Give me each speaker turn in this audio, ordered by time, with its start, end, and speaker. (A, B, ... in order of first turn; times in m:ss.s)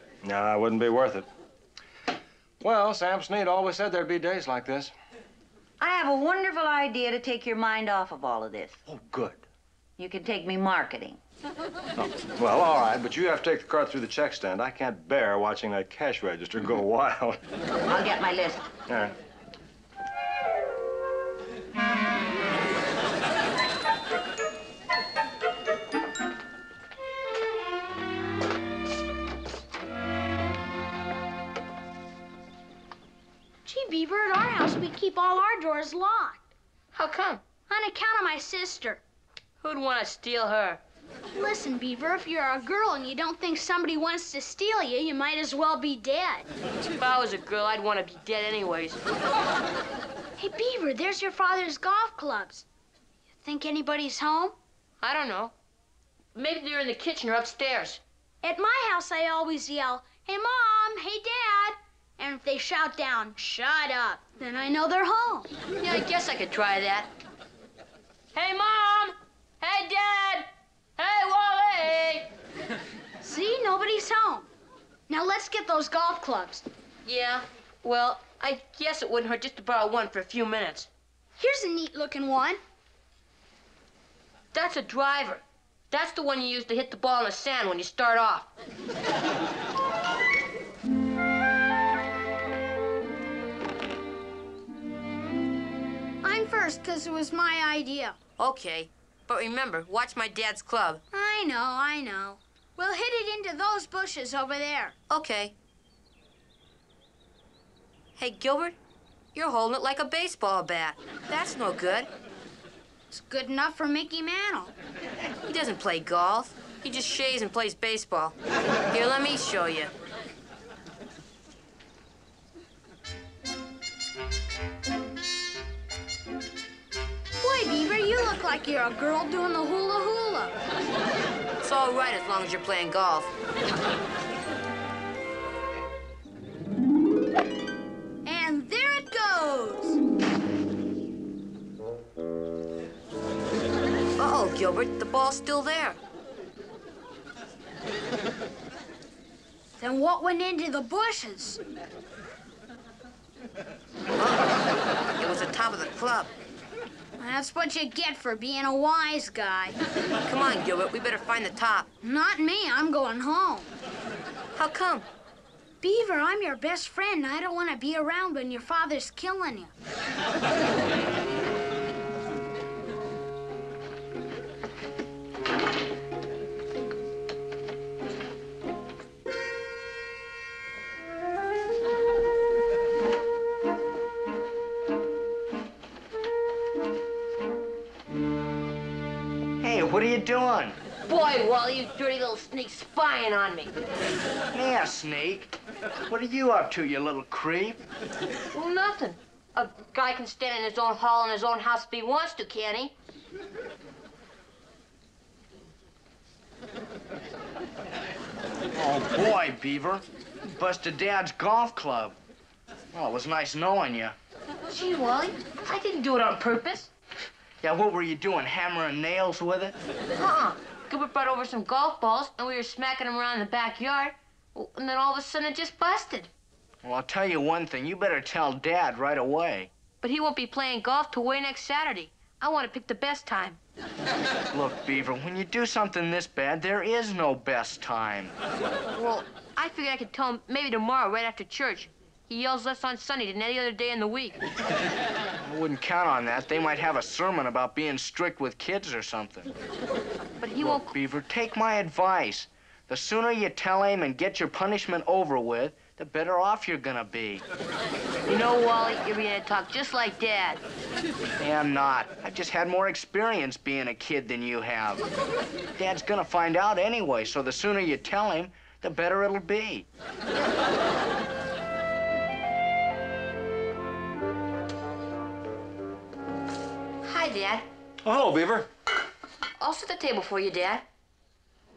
0:00.2-0:01.2 A
0:02.6-0:04.9 A
0:05.8-0:08.8 B
0:08.9-0:09.4 A
0:10.0-0:11.2 B
0:12.0-0:17.4 A
0:17.9-0:18.7 B
0:18.9-0:19.1 A
0:33.6-0:36.4 C
0:36.9-0:37.4 D
0:37.7-0:39.0 C
0:39.6-0:40.8 D
0:41.3-0:46.5 C
0:47.0-0:49.0 D
0:50.4-0:52.6 C
0:53.4-0:54.5 C
0:55.0-0:55.5 D
0:56.3-0:58.0 D
0:58.4-1:05.5 C
1:05.8-1:07.1 D
1:08.3-1:12.3 D
1:13.2-1:14.5 C
1:15.1-1:16.6 C
1:17.0-1:20.9 D
1:21.4-1:22.6 C
1:24.5-1:28.5 D
1:36.2-1:38.2 C
1:38.4-1:41.0 D
1:41.1-1:44.9 C
1:45.1-1:45.5 D
1:48.2-1:48.8 D
1:49.3-1:52.1 D
1:53.1-1:54.7 C
1:55.4-1:58.4 D
1:58.9-1:59.9 D
2:07.4-2:10.6 C
2:11.6-2:13.3 D
2:18.2-2:20.0 C
2:24.2-2:26.0 D
2:29.8-2:31.6 C
2:34.2-2:34.6 D
2:35.2-2:36.3 D
2:37.2-2:39.8 C
2:40.2-2:41.9 D
2:42.0-2:43.7 C
2:44.5-2:45.1 D
2:45.8-2:49.7 C
3:09.6-3:10.8 E
3:11.1-3:13.7 D
3:14.5-3:15.5 E
3:16.1-3:17.8 E
3:18.5-3:22.9 D
3:28.7-3:32.2 E
3:32.9-3:34.2 E
3:34.7-3:36.9 D
3:37.6-3:39.7 E
3:40.2-3:46.3 D
3:46.8-3:49.7 E
3:50.0-3:53.6 D
3:54.5-3:58.3 E
3:58.9-4:04.4 D
4:05.4-4:09.5 E
4:10.4-4:10.9 D
4:10.6-4:17.4 E
4:18.3-4:20.6 D
4:21.4-4:25.0 E
4:25.8-4:29.9 E
4:37.0-4:37.6 D
4:38.0-4:38.7 A
4:39.6-4:40.8 D